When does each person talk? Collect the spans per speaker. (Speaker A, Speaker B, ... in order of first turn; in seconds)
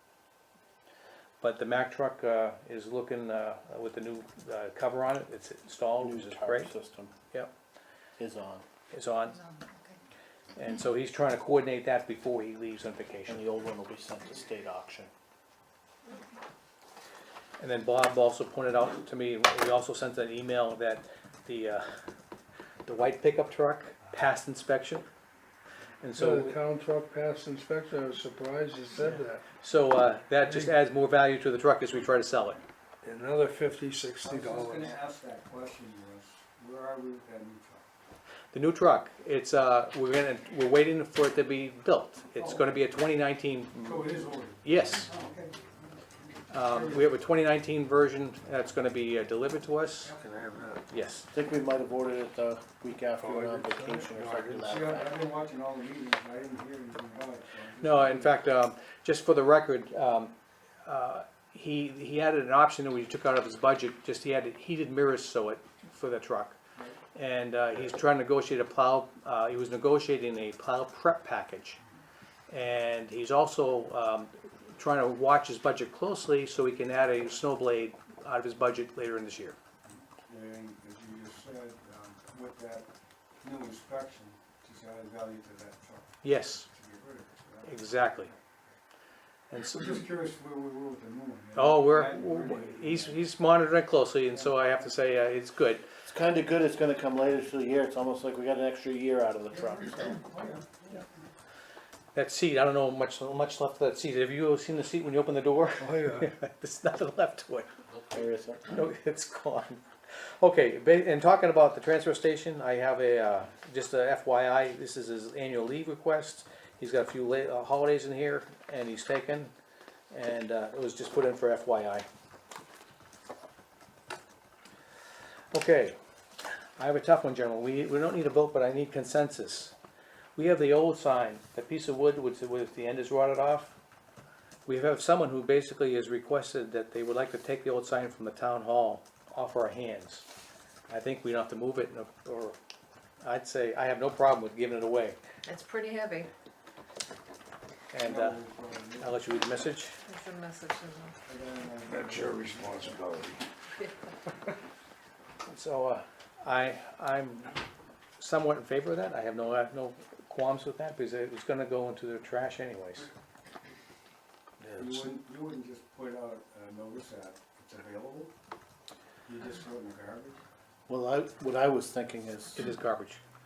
Speaker A: 1.4-6.7, 8.9-9.4, 10.6-13.4, 17.6-22.0, 22.9-25.1, 26.0-26.6, 29.0-32.6, 38.5-45.1, 46.5-50.1, 50.9-51.3, 57.8-66.6, 67.1-71.8, 72.5-79.6, 86.2-86.7, 87.6-88.3, 89.5-90.0, 91.6-95.9, 102.1-107.7, 108.7-119.5, 120.1-122.1, 125.5-126.0, 126.8-129.8, 130.4-133.8, 134.7-140.3, 140.9-142.6, 143.2-145.2, 147.9-148.4, 149.0-150.0, 155.5-157.5, 158.2-163.1, 164.6-165.1, 172.6-173.2
Speaker B: 6.0-7.2, 8.2-8.7, 13.3-15.1, 51.3-55.2, 96.0-100.2, 108.1-108.8, 170.9-172.7
Speaker C: 9.5-9.9, 145.4-146.3, 150.1-151.2
Speaker D: 26.1-29.5, 30.5-30.8, 33.0-34.9, 53.2-54.8, 105.8-106.3, 151.9-153.4
Speaker E: 34.2-37.9, 42.4-42.8, 43.8-47.1, 54.6-58.3, 66.8-67.0, 79.9-82.9, 83.4-88.4, 89.7-93.2, 94.3-94.9, 99.5-101.3, 148.0-149.3, 151.3-153.0, 164.8-168.3, 169.3-170.4